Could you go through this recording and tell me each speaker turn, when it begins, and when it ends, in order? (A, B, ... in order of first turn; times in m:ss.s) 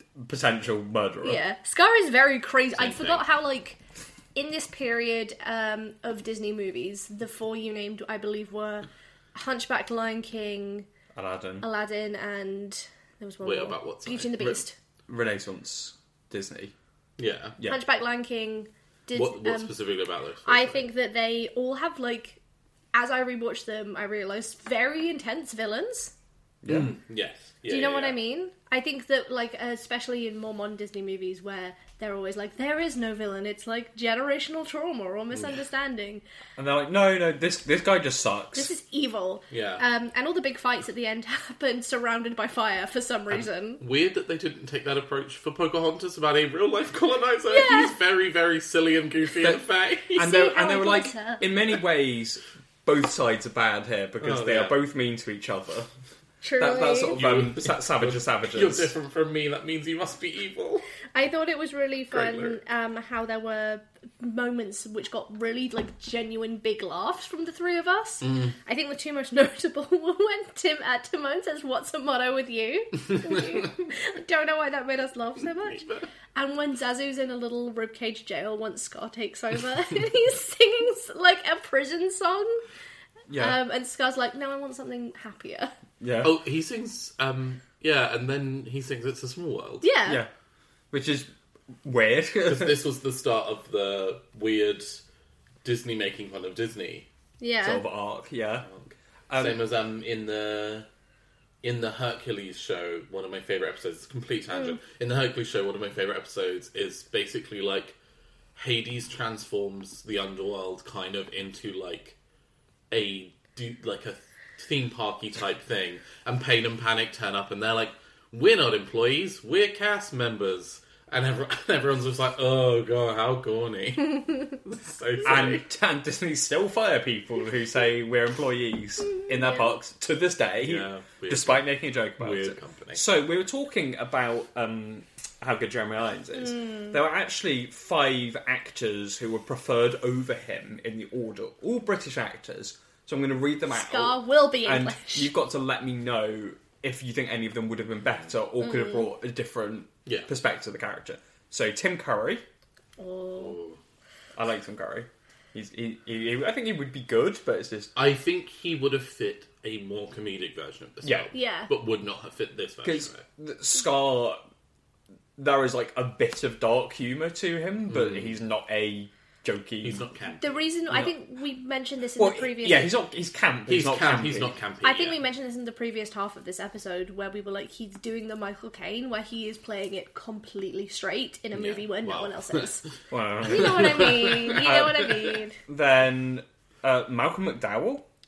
0:00.2-0:01.4 A
0:01.2-0:03.8 B
0:02.8-0:03.2 C
0:04.4-0:10.9 B
0:11.2-0:11.7 A
0:11.6-0:14.8 B
0:13.4-0:14.6 C
0:15.1-0:16.7 A
0:17.2-0:17.6 C
0:17.6-0:19.7 B
0:19.1-0:20.8 C
0:20.5-0:22.4 B
0:22.9-0:26.1 B
0:26.6-0:26.9 A
0:26.7-0:28.2 C
0:27.7-0:36.2 B
0:36.6-0:38.7 A
0:38.5-0:43.8 B
0:39.5-0:39.8 C
0:43.8-0:50.2 C
0:47.5-0:47.9 B
0:50.1-0:51.5 B
0:50.2-0:55.9 A
0:54.2-0:54.8 C
0:56.4-0:57.2 B
0:56.6-0:58.9 A
0:57.1-1:00.9 C
1:01.1-1:22.6 B
1:02.1-1:02.6 C
1:08.2-1:08.6 C
1:15.7-1:16.0 C
1:23.3-1:23.6 A
1:23.4-1:25.7 B
1:26.0-1:26.4 A
1:26.2-1:29.9 C
1:29.8-1:30.2 B
1:30.9-1:31.3 A
1:31.8-1:32.8 A
1:32.5-1:35.0 C
1:35.6-1:37.1 C
1:37.4-1:37.8 B
1:37.6-1:38.7 A
1:39.3-1:39.6 A
1:39.4-1:40.9 C
1:41.6-1:48.0 C
1:48.6-1:52.2 C
1:52.9-2:05.6 C
2:05.2-2:32.4 A
2:10.6-2:13.0 C
2:23.7-2:25.3 B
2:28.6-2:29.1 B
2:33.0-2:33.6 B
2:33.4-2:33.8 C
2:34.4-2:37.9 A
2:38.0-2:43.2 C
2:41.0-2:41.3 A
2:41.3-2:41.7 B
2:42.8-2:44.4 A
2:45.4-2:50.0 A
2:47.9-2:48.4 C
2:49.8-2:50.5 C
2:50.4-2:52.9 B
2:52.2-2:54.6 A
2:53.7-2:55.2 C
2:54.8-3:02.9 B
3:01.6-3:02.9 C
3:03.1-3:08.1 A
3:03.4-3:05.6 B
3:03.5-3:04.6 C